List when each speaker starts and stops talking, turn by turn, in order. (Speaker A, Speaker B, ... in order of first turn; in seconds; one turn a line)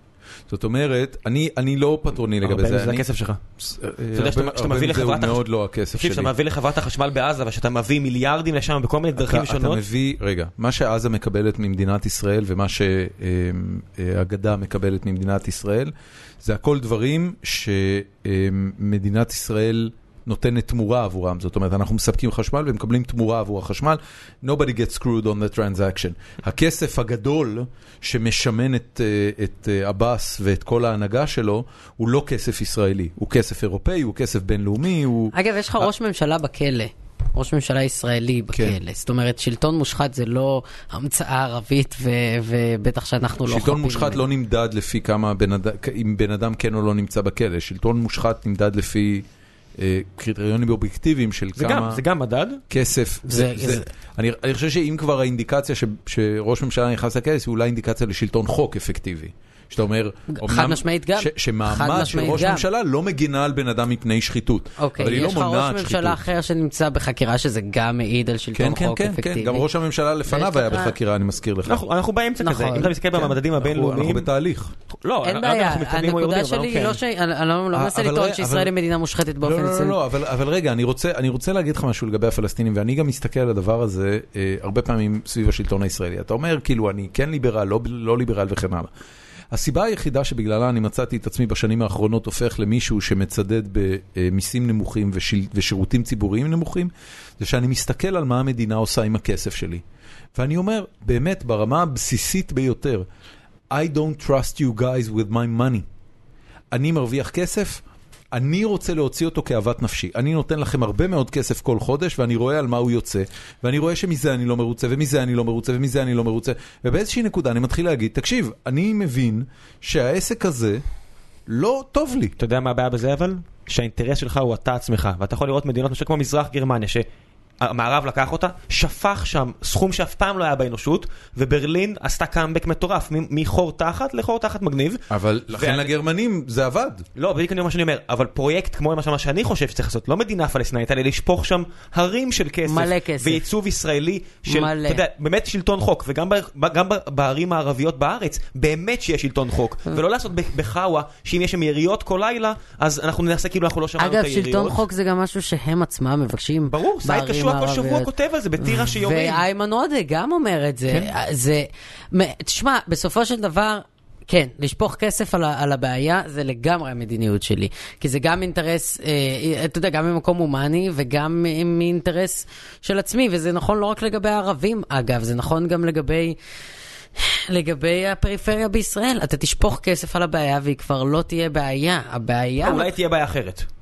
Speaker A: 0.5-3.0
Speaker B: 2.4-3.4
Speaker A: 3.6-6.3
Speaker B: 4.1-9.8
Speaker A: 9.2-35.9
Speaker C: 35.3-44.2
Speaker A: 43.5-49.3
Speaker A: 49.8-52.0
Speaker B: 51.6-52.6
Speaker A: 52.7-66.2
Speaker C: 53.3-53.9
Speaker C: 60.3-62.7
Speaker C: 64.8-69.6
Speaker A: 68.5-71.8
Speaker C: 70.3-71.0
Speaker B: 71.7-74.3
Speaker C: 72.4-72.9
Speaker A: 72.8-74.7
Speaker B: 75.0-77.0
Speaker C: 75.2-80.0
Speaker A: 77.7-78.7
Speaker A: 79.4-88.9
Speaker A: 89.5-99.8
Speaker A: 100.3-103.0
Speaker A: 103.7-105.9
Speaker A: 106.7-120.8
Speaker A: 121.5-122.3
Speaker B: 122.4-127.0
Speaker B: 127.6-135.9
Speaker A: 135.1-137.1
Speaker B: 137.2-154.8
Speaker C: 142.6-143.4
Speaker C: 144.4-145.0
Speaker C: 154.0-176.4
Speaker B: 156.7-159.4
Speaker C: 177.2-182.9
Speaker B: 182.6-183.7